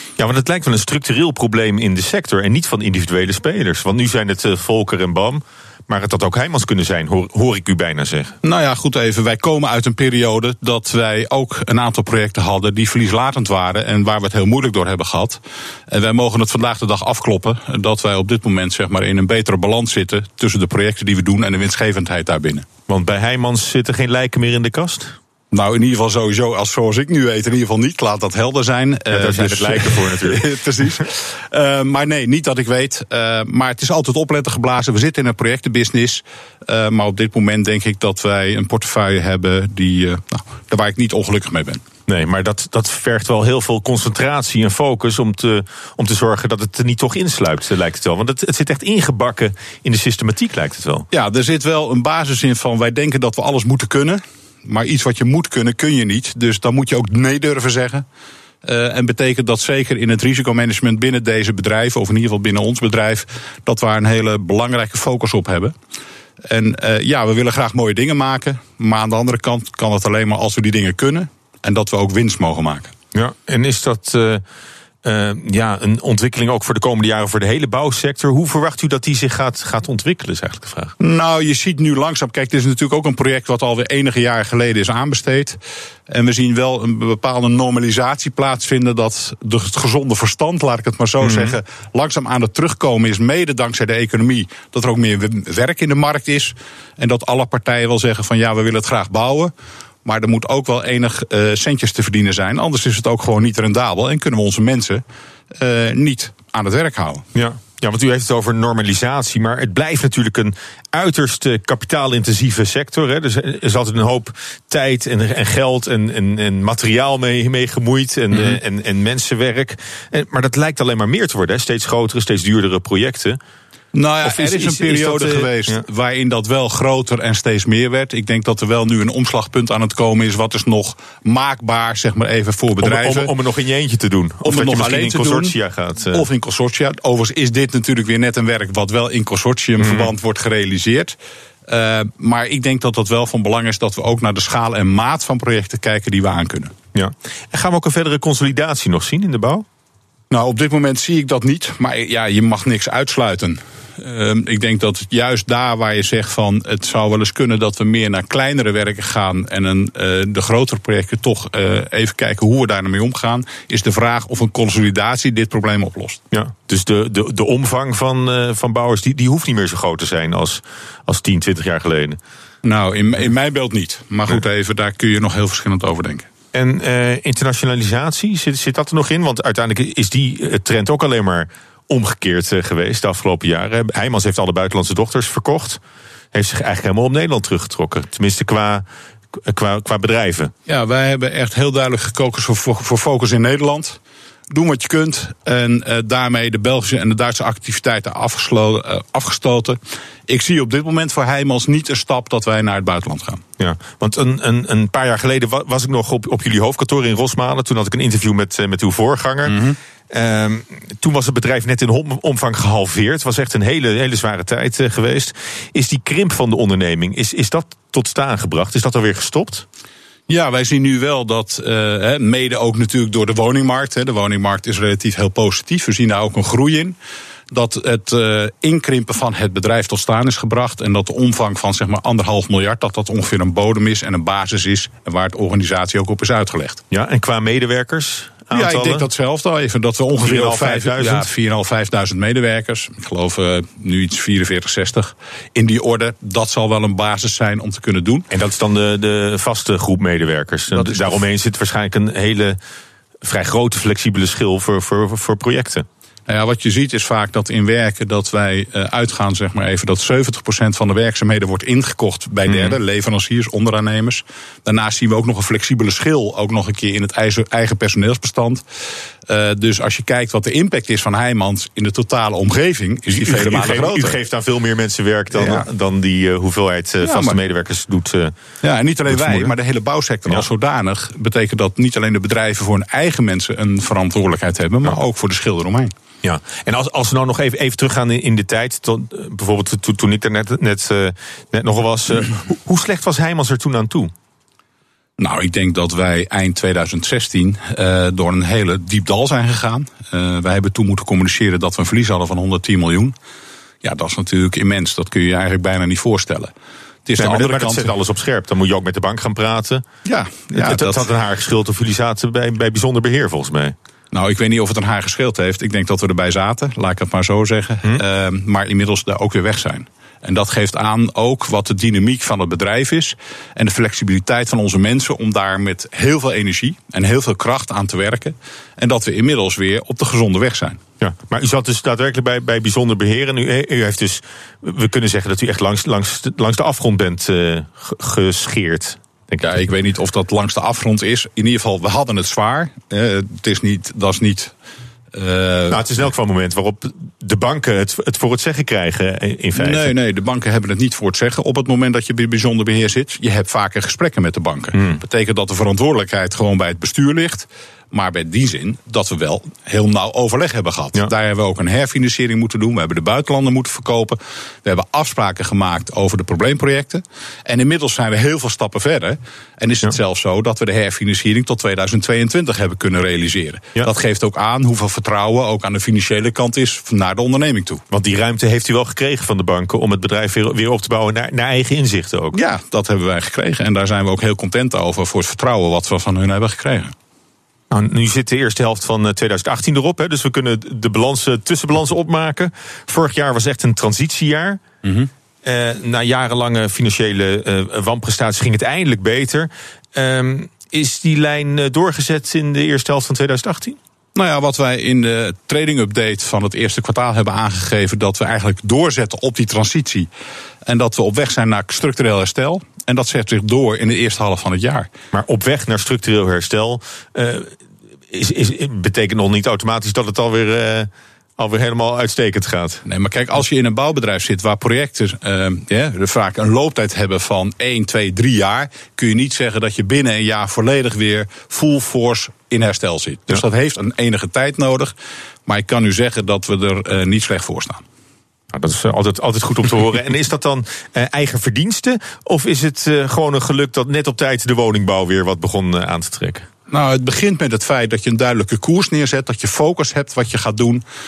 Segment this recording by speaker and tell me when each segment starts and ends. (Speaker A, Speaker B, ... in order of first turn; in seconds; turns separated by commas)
Speaker A: 0.2-8.3, Speaker B: 8.4-22.7, Speaker A: 22.9-25.1, Speaker B: 25.5-41.8, Speaker A: 29.1-30.5, Speaker A: 42.1-51.0, Speaker B: 51.1-58.0, Speaker B: 58.6-65.7, Speaker B: 66.4-72.9, Speaker A: 73.1-74.4, Speaker A: 75.0-80.9, Speaker B: 81.0-99.5, Speaker A: 91.2-91.5, Speaker B: 100.0-107.2, Speaker A: 107.3-123.4, Speaker B: 118.3-118.6, Speaker B: 123.9-133.3, Speaker A: 124.2-125.8, Speaker A: 132.8-136.2, Speaker B: 134.4-135.5, Speaker B: 136.1-141.2, Speaker A: 139.8-140.1, Speaker B: 141.7-146.7, Speaker A: 146.9-149.6, Speaker B: 150.3-166.2, Speaker A: 166.3-172.2, Speaker B: 172.6-176.3, Speaker A: 176.5-185.8, Speaker A: 186.3-190.5, Speaker B: 190.7-194.0, Speaker B: 194.5-203.4, Speaker A: 203.6-219.6, Speaker B: 209.4-209.8, Speaker B: 220.3-227.0, Speaker B: 227.5-236.8, Speaker A: 236.9-239.0, Speaker B: 238.5-248.2, Speaker A: 240.2-241.3, Speaker A: 248.3-252.6, Speaker B: 250.7-251.2, Speaker A: 253.2-255.8, Speaker B: 256.3-268.6, Speaker A: 262.5-262.7, Speaker B: 269.3-274.2, Speaker A: 273.1-278.3, Speaker B: 275.3-275.7, Speaker B: 277.0-277.4, Speaker B: 278.6-285.9, Speaker A: 279.1-279.5, Speaker A: 286.2-294.1, Speaker B: 295.2-303.1, Speaker B: 303.8-306.5, Speaker B: 307.1-307.9, Speaker A: 307.2-309.8, Speaker B: 310.0-311.0, Speaker A: 310.5-313.7, Speaker B: 314.1-330.8, Speaker A: 331.0-339.5, Speaker B: 339.4-344.5, Speaker B: 345.1-345.8, Speaker A: 345.7-349.9, Speaker B: 349.5-377.8, Speaker A: 377.9-382.4, Speaker B: 382.3-386.9, Speaker A: 387.7-394.6, Speaker B: 394.8-395.1, Speaker A: 395.4-403.8, Speaker B: 404.1-410.1, Speaker B: 410.6-414.9, Speaker A: 415.1-417.6, Speaker A: 418.1-422.8, Speaker B: 422.8-434.9, Speaker B: 435.4-437.8, Speaker A: 438.5-446.5, Speaker B: 446.7-450.8